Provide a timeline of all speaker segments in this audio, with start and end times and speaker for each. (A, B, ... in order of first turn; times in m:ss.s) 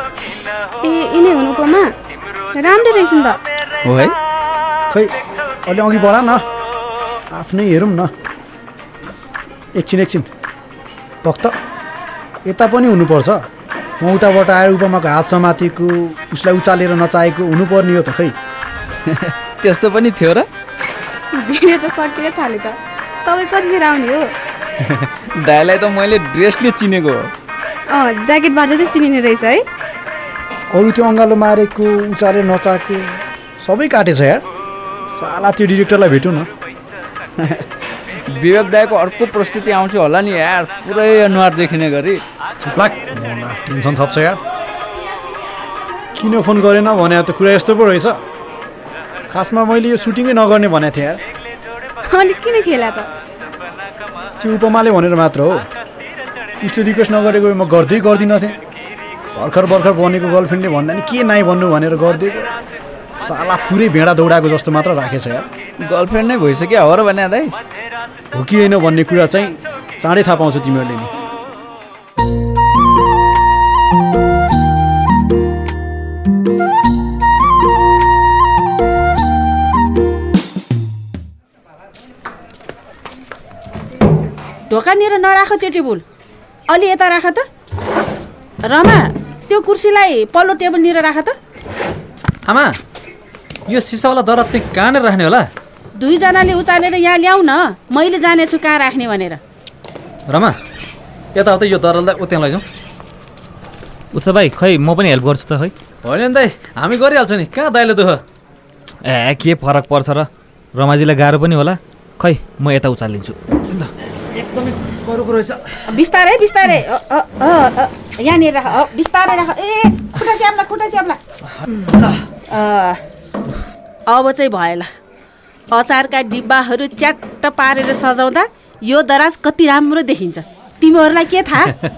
0:00.8-0:01.9 A
0:02.5-0:03.4 A
0:03.8-0:04.1 B
0:05.7-0:06.4 C
0:07.3-0:08.1 C
0:09.7-0:10.3 C
0:11.2-0:11.5 C
0:12.4-0:13.4 C
0:14.0-0:18.3 C
0:19.1-0:20.5 B
0:21.3-0:24.3 A
0:24.8-0:27.3 B
0:27.9-0:29.6 A
0:30.7-0:34.4 C
0:35.1-0:36.5 C
0:38.3-0:42.2 B
0:42.6-0:44.4 C
0:46.1-0:48.2 C
0:49.3-0:51.2 C
0:52.1-0:53.1 A
0:54.4-0:55.6 C
0:56.6-0:58.6 C
0:59.3-1:02.5 C
1:03.2-1:05.5 C
1:05.8-1:07.5 B
1:08.3-1:11.1 C
1:24.7-1:26.0 D
1:26.7-1:27.4 D
1:28.6-1:31.4 D
1:32.5-1:32.8 E
1:33.7-1:35.5 E
1:36.0-1:39.4 D
1:40.3-1:40.6 E
1:41.3-1:42.6 E
1:44.3-1:45.6 F
1:46.0-1:48.2 E
1:49.1-1:50.2 F
1:50.8-1:53.2 F
1:55.9-2:01.2 D
2:02.5-2:03.0 D
2:04.1-2:04.9 D
2:05.7-2:11.7 D